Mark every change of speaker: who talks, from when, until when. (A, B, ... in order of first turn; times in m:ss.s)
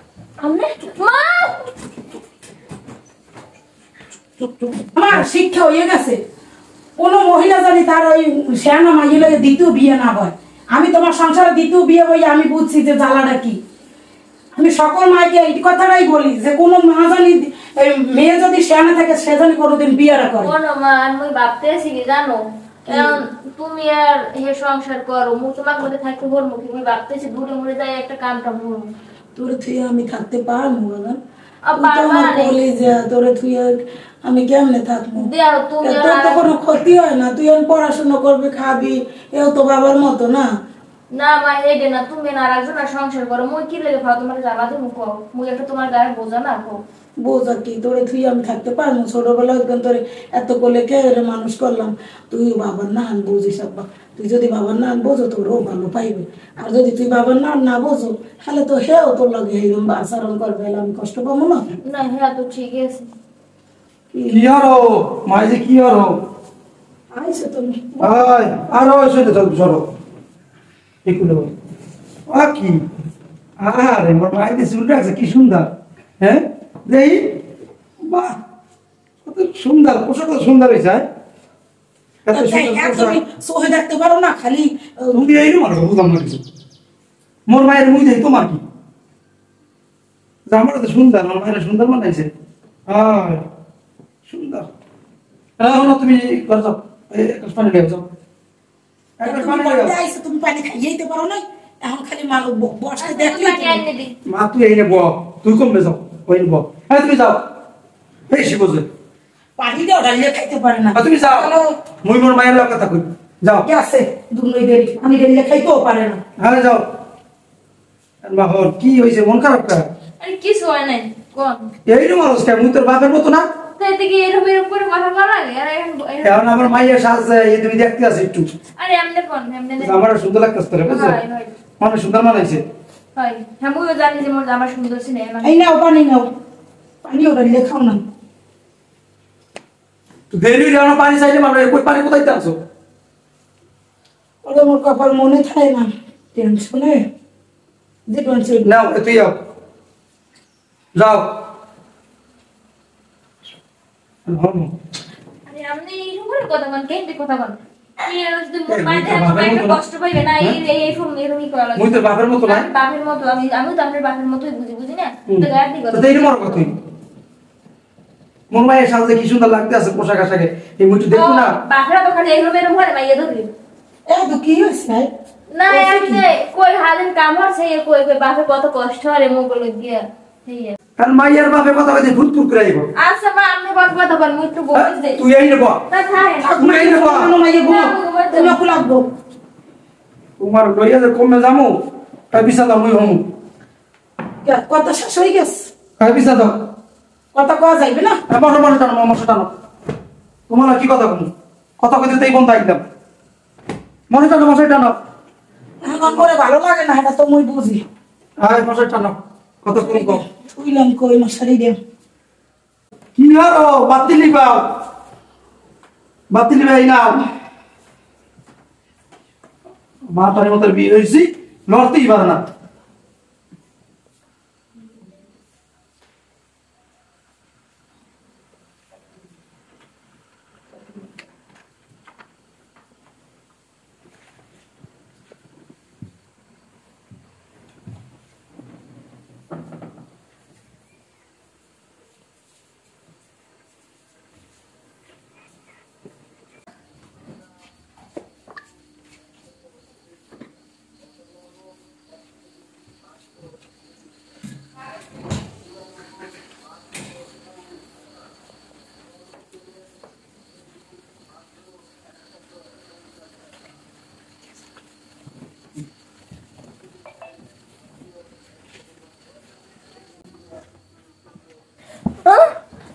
0:00.4-0:01.7 A
0:04.4-0:05.2 B
0:04.9-0:06.2 C
0:07.0-0:13.6 C
0:14.6-0:20.5 C
0:20.4-0:28.9 A
0:22.9-0:23.2 C
0:29.4-0:31.2 C
0:31.6-0:32.6 A
0:31.8-0:35.3 C
0:35.2-0:36.5 A
0:35.8-0:40.5 C
0:41.1-0:46.8 A
0:47.2-1:01.6 C
1:01.8-1:03.1 A
1:04.1-1:04.5 C
1:04.3-1:06.2 B
1:07.1-1:08.2 C
1:08.0-1:09.9 B
1:11.0-1:11.5 B
1:12.3-1:12.8 B
1:13.6-1:17.4 B
1:18.0-1:18.4 B
1:19.2-1:21.0 B
1:22.2-1:23.2 B
1:22.3-1:25.2 C
1:25.1-1:26.4 B
1:27.5-1:28.6 B
1:30.5-1:32.3 B
1:32.9-1:33.4 B
1:34.3-1:34.7 B
1:35.6-1:38.1 B
1:39.2-1:40.0 B
1:39.2-1:43.8 C
1:43.0-1:44.1 A
1:44.2-1:47.4 B
1:48.3-1:48.9 B
1:49.6-1:51.7 C
1:50.9-1:51.5 B
1:52.0-1:53.7 B
1:53.6-1:56.2 C
1:56.4-1:56.8 B
1:58.2-1:59.8 B
2:00.2-2:01.7 A
2:01.9-2:03.5 B
2:03.8-2:06.7 A
2:06.2-2:08.5 B
2:08.8-2:10.0 A
2:09.8-2:11.2 B
2:10.8-2:11.5 A
2:11.8-2:12.6 B
2:13.2-2:15.7 A
2:15.4-2:16.3 C
2:17.0-2:18.0 C
2:20.3-2:22.6 B
2:24.4-2:27.0 C
2:28.1-2:28.7 C
2:28.6-2:29.4 B
2:30.9-2:31.4 B
2:34.2-2:34.7 B
2:35.5-2:46.6 A
2:38.7-2:39.8 B
2:41.7-2:42.7 B
2:45.3-2:46.8 B
2:48.5-2:51.6 B
2:51.1-2:53.5 A
2:54.1-2:55.1 C
2:55.5-3:00.7 A
2:55.7-2:56.2 C
3:01.0-3:02.9 B
3:03.0-3:05.2 A
3:04.7-3:05.8 B
3:05.9-3:06.7 A
3:06.4-3:09.0 C
3:06.6-3:07.3 B
3:07.6-3:08.6 A
3:10.4-3:13.3 B
3:14.4-3:15.7 C
3:16.0-3:16.6 B
3:17.3-3:18.2 C
3:18.3-3:19.5 B
3:20.5-3:22.8 B
3:24.1-3:25.0 B
3:25.8-3:27.8 C
3:28.4-3:30.2 B
3:29.7-3:31.8 C
3:33.2-3:34.7 B
3:36.3-3:37.2 B
3:40.1-3:42.4 B
4:32.2-4:32.5 A